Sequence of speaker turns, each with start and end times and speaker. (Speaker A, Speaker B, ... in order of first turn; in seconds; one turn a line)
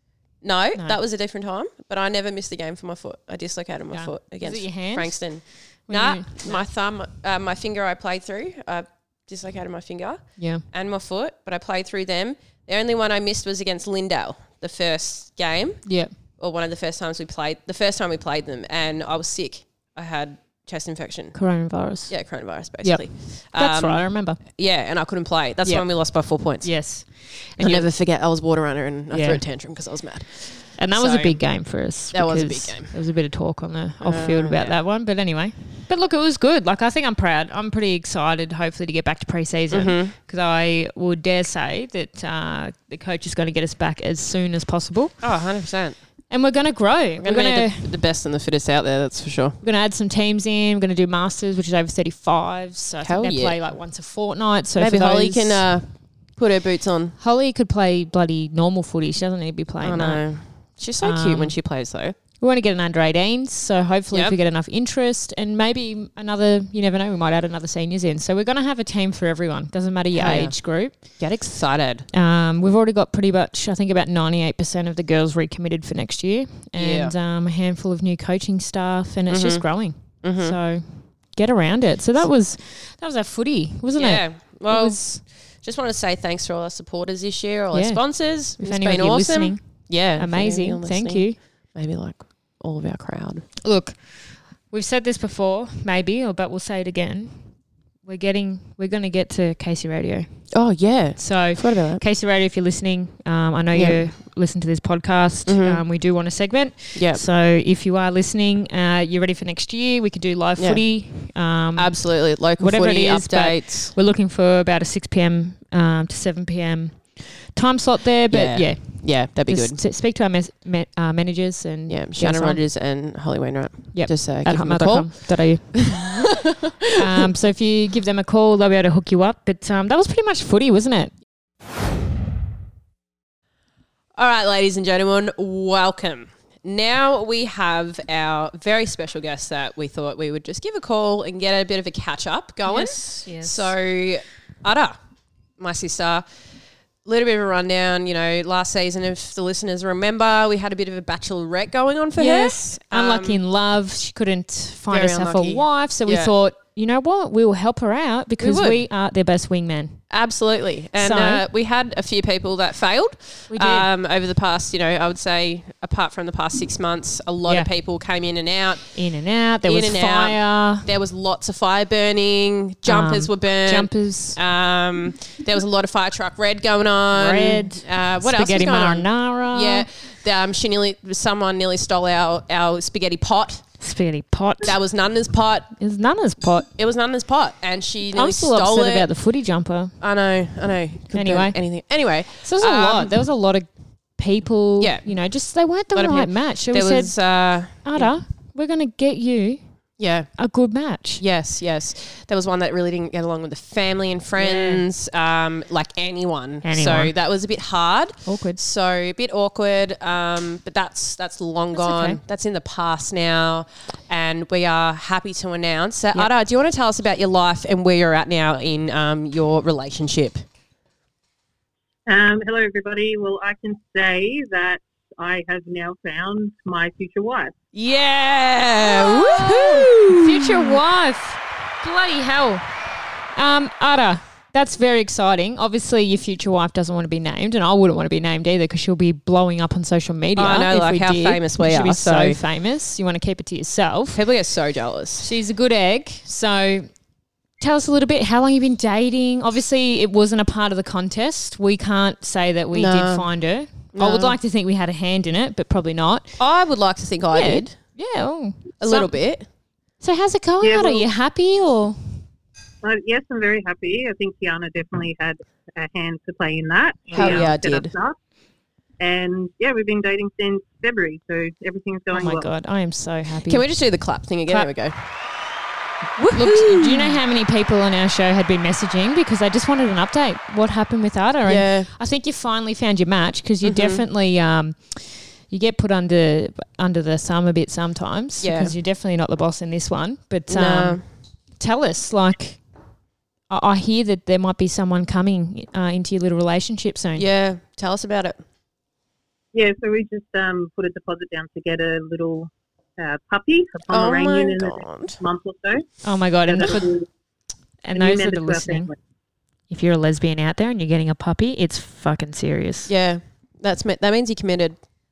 Speaker A: 0.4-21.4
Speaker B: 3.9-6.7
Speaker B: 10.4-10.6
Speaker B: 15.8-16.1
Speaker B: 21.4-22.2
Speaker A: 22.1-26.9
Speaker B: 22.8-24.4
Speaker B: 25.6-25.9
Speaker B: 26.6-27.9
Speaker A: 27.6-31.4
Speaker B: 29.1-29.4
Speaker B: 30.8-45.1
Speaker A: 32.1-32.9
Speaker A: 34.0-34.8
Speaker A: 39.7-40.1
Speaker A: 45.2-46.0
Speaker B: 46.3-47.9
Speaker A: 47.2-49.6
Speaker B: 49.6-55.7
Speaker A: 53.0-53.6
Speaker A: 54.8-57.1
Speaker B: 57.2-60.2
Speaker A: 59.8-62.1
Speaker B: 61.0-61.6
Speaker B: 62.4-71.2
Speaker A: 70.1-72.1
Speaker B: 72.1-85.0
Speaker A: 76.7-77.1
Speaker A: 79.3-80.6
Speaker A: 84.0-93.5
Speaker B: 87.7-91.4
Speaker B: 93.6-97.5
Speaker B: 98.0-100.5
Speaker A: 100.5-102.0
Speaker B: 101.2-122.6
Speaker A: 103.7-104.1
Speaker A: 105.5-105.8
Speaker A: 106.9-107.2
Speaker A: 110.6-110.9
Speaker A: 111.8-113.9
Speaker A: 118.3-119.8
Speaker A: 121.9-127.2
Speaker B: 123.9-126.2
Speaker B: 127.0-131.1
Speaker A: 134.2-145.0
Speaker B: 142.7-143.7
Speaker A: 145.6-146.2
Speaker A: 147.1-153.4
Speaker B: 152.2-160.0
Speaker A: 154.9-156.3
Speaker A: 158.4-158.9
Speaker A: 160.1-168.9
Speaker B: 161.0-161.4
Speaker B: 163.5-163.9
Speaker B: 168.9-170.9
Speaker A: 169.6-183.6
Speaker B: 172.8-174.4
Speaker B: 177.1-179.9
Speaker B: 183.8-184.8
Speaker A: 184.6-185.7
Speaker B: 185.8-186.7
Speaker A: 186.7-189.1
Speaker B: 188.1-189.9
Speaker A: 190.0-193.2
Speaker B: 191.1-191.6
Speaker B: 192.4-197.1
Speaker A: 194.8-195.1
Speaker A: 195.9-198.1
Speaker B: 197.8-199.6
Speaker A: 200.0-200.4
Speaker B: 200.4-201.2
Speaker A: 201.2-220.4
Speaker B: 204.4-204.8
Speaker B: 206.6-207.1
Speaker B: 208.2-208.6
Speaker B: 211.7-212.2
Speaker C: 222.1-227.5
Speaker A: 227.7-230.8
Speaker B: 228.8-232.7
Speaker B: 233.3-244.2
Speaker A: 240.4-242.4
Speaker A: 244.1-245.3
Speaker B: 245.2-246.9
Speaker B: 247.6-256.4
Speaker A: 252.7-253.3
Speaker A: 253.9-254.4
Speaker A: 256.4-257.8
Speaker B: 257.3-259.1
Speaker A: 258.8-259.4
Speaker B: 260.0-262.0
Speaker C: 260.6-261.1
Speaker C: 262.8-268.1
Speaker B: 267.1-267.6
Speaker A: 267.1-267.9
Speaker C: 269.0-272.5
Speaker B: 272.1-273.6
Speaker A: 273.4-274.9
Speaker A: 276.2-277.2
Speaker B: 276.3-291.0
Speaker A: 281.4-281.9
Speaker A: 283.6-284.1
Speaker A: 288.4-288.7
Speaker A: 290.5-291.1
Speaker B: 291.6-292.6
Speaker B: 293.5-297.2
Speaker A: 297.2-298.4
Speaker C: 299.5-305.9
Speaker A: 303.9-305.2
Speaker B: 306.0-306.9
Speaker C: 306.4-307.1
Speaker B: 307.8-308.9
Speaker C: 307.9-308.9
Speaker B: 309.7-312.9
Speaker A: 312.9-314.8